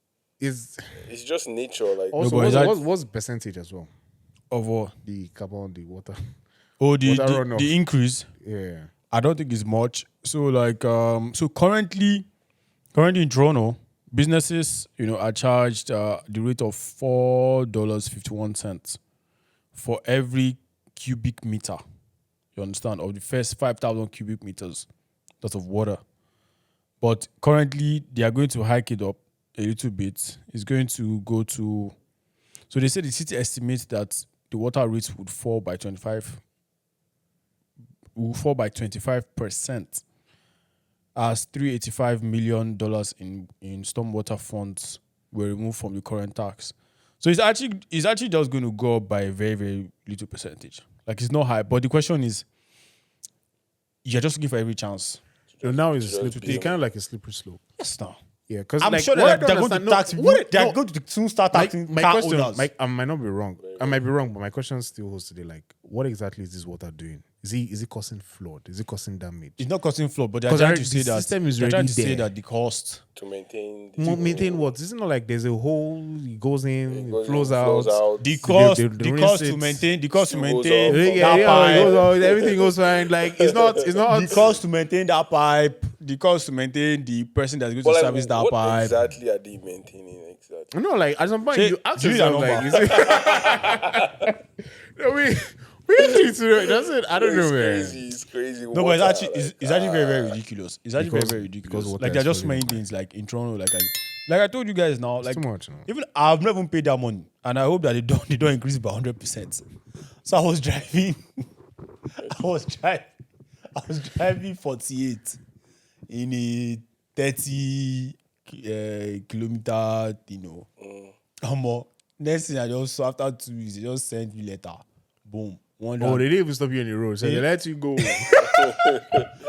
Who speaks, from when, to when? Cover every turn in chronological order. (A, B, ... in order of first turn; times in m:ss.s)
0:00.4-0:00.9 A
0:01.0-0:02.8 B
0:02.1-0:03.9 A
0:02.2-0:02.7 C
0:04.5-0:04.9 C
0:05.0-0:06.2 A
0:06.8-0:08.3 C
0:07.0-0:07.8 A
0:08.4-0:08.9 A
0:09.1-0:12.2 C
0:12.9-0:19.0 C
0:19.7-0:21.8 C
0:22.6-0:24.9 C
0:25.4-0:26.0 C
0:27.0-0:31.9 C
0:32.7-0:36.4 C
0:38.2-0:40.0 C
0:41.2-0:52.4 C
0:54.0-0:55.2 C
0:55.5-0:56.8 B
0:55.6-0:57.6 A
0:56.4-0:56.6 C
0:57.8-0:58.2 C
0:58.5-1:00.8 A
0:58.8-1:02.7 C
1:01.5-1:09.6 A
1:03.6-1:04.0 B
1:09.6-1:13.0 C
1:10.4-1:12.3 A
1:13.2-1:14.7 B
1:14.0-1:19.8 A
1:16.8-1:18.4 B
1:18.2-1:21.9 C
1:20.2-1:23.7 B
1:20.9-1:24.6 A
1:24.1-1:29.0 C
1:27.8-1:30.7 B
1:30.7-1:34.4 A
1:31.5-1:33.1 C
1:33.0-1:34.0 B
1:34.9-1:38.0 A
1:36.8-1:40.4 B
1:38.7-1:49.6 C
1:41.0-1:42.8 A
1:45.2-1:45.9 A
1:50.2-1:51.2 C
1:52.2-1:53.1 C
1:53.7-1:55.4 C
1:56.1-2:00.7 C
2:00.8-2:01.1 B
2:01.4-2:06.2 C
2:06.0-2:08.3 A
2:07.2-2:07.4 C
2:08.0-2:08.4 C
2:08.3-2:09.3 B